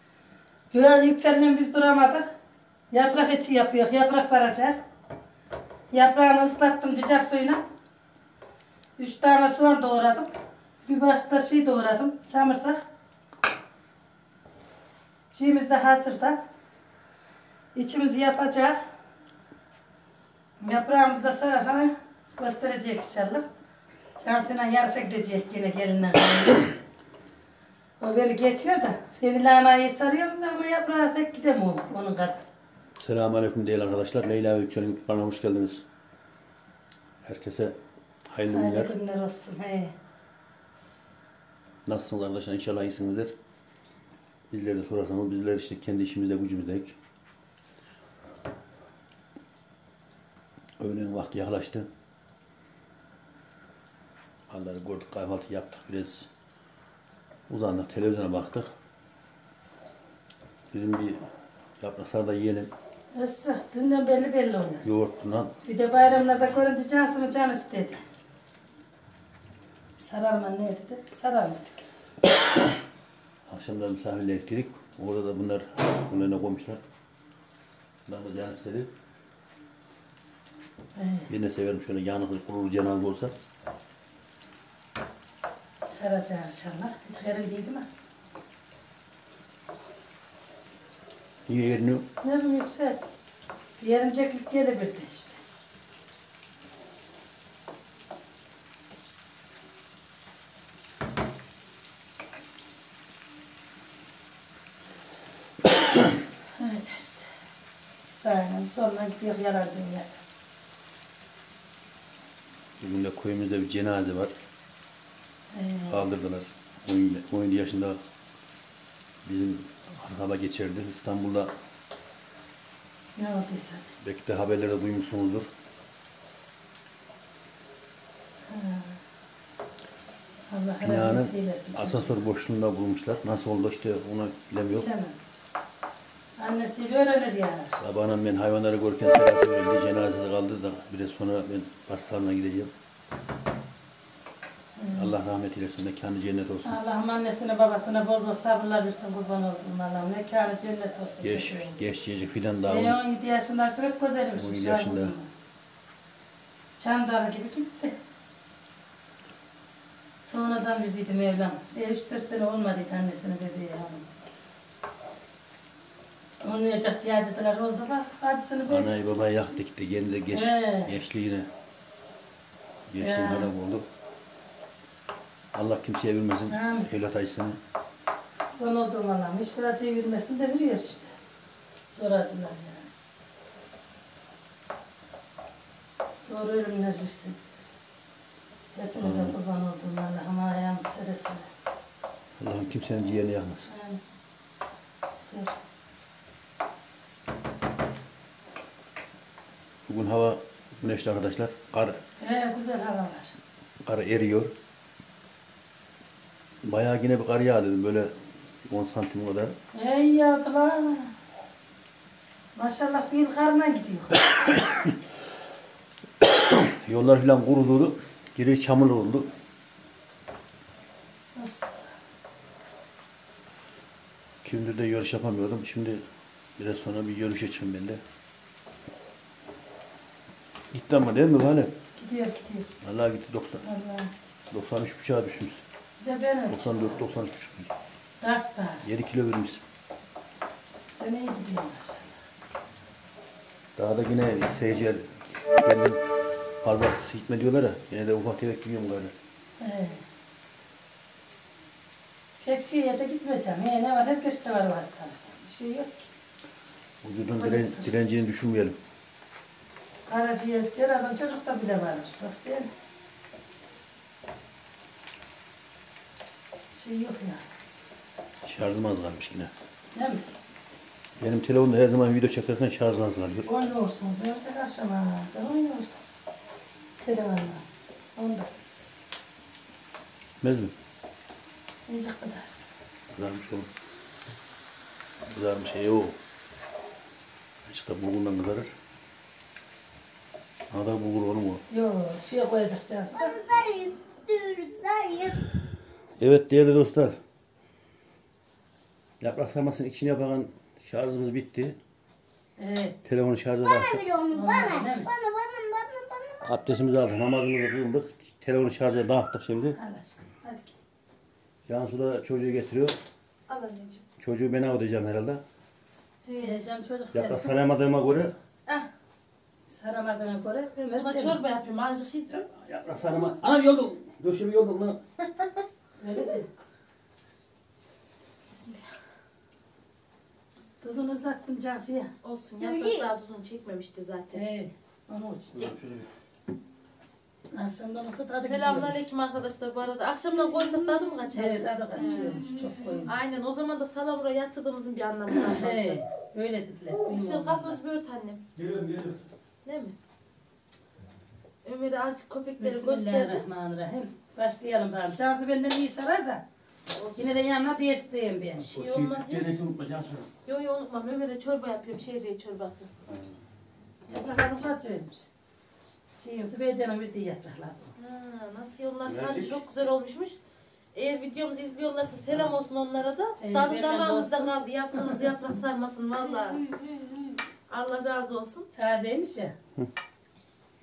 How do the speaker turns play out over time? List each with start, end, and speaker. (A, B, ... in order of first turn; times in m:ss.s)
0:00.7-0:02.3 A
0:02.9-0:04.8 A
0:05.9-0:07.6 A
0:09.0-0:10.3 A
0:10.9-0:12.8 A
0:15.3-0:16.4 A
0:17.7-0:18.8 A
0:20.6-0:23.4 A
0:24.2-0:26.7 A
0:28.0-0:32.4 A
0:33.0-0:35.8 B
0:37.2-0:37.8 B
0:38.3-0:39.0 B
0:38.5-0:40.0 A
0:41.8-0:43.3 B
0:44.5-0:47.0 B
0:50.8-0:51.9 B
0:54.5-0:56.3 B
0:57.5-0:58.7 B
1:00.7-1:01.2 B
1:01.8-1:02.7 B
1:03.2-1:04.8 A
1:04.8-1:05.5 B
1:05.6-1:08.0 A
1:10.0-1:11.9 A
1:13.5-1:16.8 B
1:18.1-1:18.9 B
1:21.0-1:21.3 A
1:21.3-1:23.3 B
1:25.9-1:27.9 A
1:31.5-1:32.0 B
1:32.2-1:33.0 A
1:33.8-1:35.4 A
1:46.6-1:47.3 A
1:48.1-1:50.2 A
1:52.8-1:54.3 B
1:55.5-1:56.0 A
1:55.9-1:58.0 B
1:59.2-2:01.5 B
2:03.2-2:03.9 A
2:04.0-2:05.5 B
2:08.5-2:09.0 A
2:10.5-2:12.2 A
2:10.8-2:14.9 B
2:14.8-2:15.2 A
2:16.4-2:17.8 A
2:17.8-2:22.7 B
2:24.8-2:25.1 A
2:24.9-2:26.8 B
2:26.6-2:31.8 A
2:31.2-2:33.0 B
2:32.7-2:35.3 A
2:34.3-2:35.2 B
2:36.8-2:38.0 A
2:40.2-2:44.1 A
2:46.4-2:48.9 A
2:48.7-2:51.5 B
2:50.3-2:50.9 A
2:52.9-2:53.8 B
2:53.0-2:53.5 A
2:55.5-2:57.6 B
2:56.5-2:56.9 A
2:58.6-3:01.1 A
3:01.9-3:02.9 A
3:06.2-3:07.4 A
3:08.8-3:11.5 A
3:09.0-3:09.4 B
3:12.4-3:13.7 B
3:13.7-3:14.0 A
3:15.2-3:15.6 A
3:19.9-3:22.0 B
3:22.2-3:23.3 A
3:23.8-3:24.5 B
3:26.6-3:28.1 B
3:28.7-3:29.5 B
3:29.8-3:31.1 A
3:32.6-3:34.2 A
3:34.4-3:35.0 B
3:36.2-3:39.3 B
3:41.4-3:41.9 A
3:44.4-3:46.0 B
3:46.6-3:48.0 B
3:50.7-3:51.7 B
3:52.0-3:52.7 A
3:52.8-3:53.6 B
3:53.6-3:54.1 A
3:54.5-3:55.6 B
3:56.0-3:57.0 A
3:56.5-3:57.7 B
3:58.2-3:58.8 A
3:58.8-3:59.6 B
4:00.9-4:02.2 A
4:03.8-4:06.0 B
4:06.6-4:09.1 B
4:09.6-4:10.0 A
4:12.4-4:16.1 A
4:17.0-4:18.8 B
4:17.4-4:17.9 A
4:20.1-4:22.7 A
4:26.7-4:27.4 A
4:28.4-4:29.5 B
4:29.9-4:30.2 A
4:31.2-4:33.5 B
4:33.4-4:36.2 A
4:37.0-4:37.6 A
4:38.2-4:38.5 A
4:40.4-4:40.7 B
4:41.9-4:42.7 A
4:43.1-4:43.7 B
4:45.3-4:46.2 B
4:47.6-4:48.7 B
4:50.7-4:51.6 B
4:51.7-4:53.3 A
4:53.1-4:55.4 C
4:56.2-4:57.2 B
4:59.2-5:01.8 B
5:02.6-5:03.0 A
5:03.0-5:04.0 B
5:03.6-5:06.5 C
5:04.3-5:05.1 A
5:06.4-5:09.8 B
5:09.8-5:10.8 A
5:11.7-5:13.0 B
5:13.5-5:14.0 D
5:14.2-5:15.4 B
5:16.2-5:16.6 D
5:16.4-5:17.5 A
5:17.1-5:18.3 B
5:19.7-5:21.4 A
5:20.9-5:22.4 D
5:22.3-5:25.0 B
5:26.0-5:26.5 A
5:28.4-5:28.9 D
5:30.8-5:32.1 A
5:32.2-5:34.4 D
5:32.6-5:33.1 C
5:34.3-5:35.7 A
5:35.5-5:36.1 B
5:37.5-5:39.1 A
5:38.4-5:42.5 D
5:40.4-5:41.1 C
5:41.3-5:43.2 A
5:42.0-5:43.0 C
5:43.1-5:46.0 D
5:45.3-5:47.8 A
5:47.0-5:48.4 D
5:48.6-5:49.2 B
5:49.6-5:49.9 D
5:51.6-5:53.4 D
5:52.6-5:56.4 A
5:56.9-5:57.3 D
5:57.2-5:58.7 A
5:58.7-5:59.5 D
5:58.7-6:00.3 B
6:00.4-6:02.9 D
6:03.1-6:03.4 B
6:04.1-6:05.3 A
6:06.1-6:07.9 A
6:08.0-6:10.4 D
6:09.1-6:09.6 B
6:10.9-6:16.6 D
6:13.4-6:15.2 A
6:16.5-6:17.4 C
6:17.7-6:18.7 D
6:18.7-6:19.6 A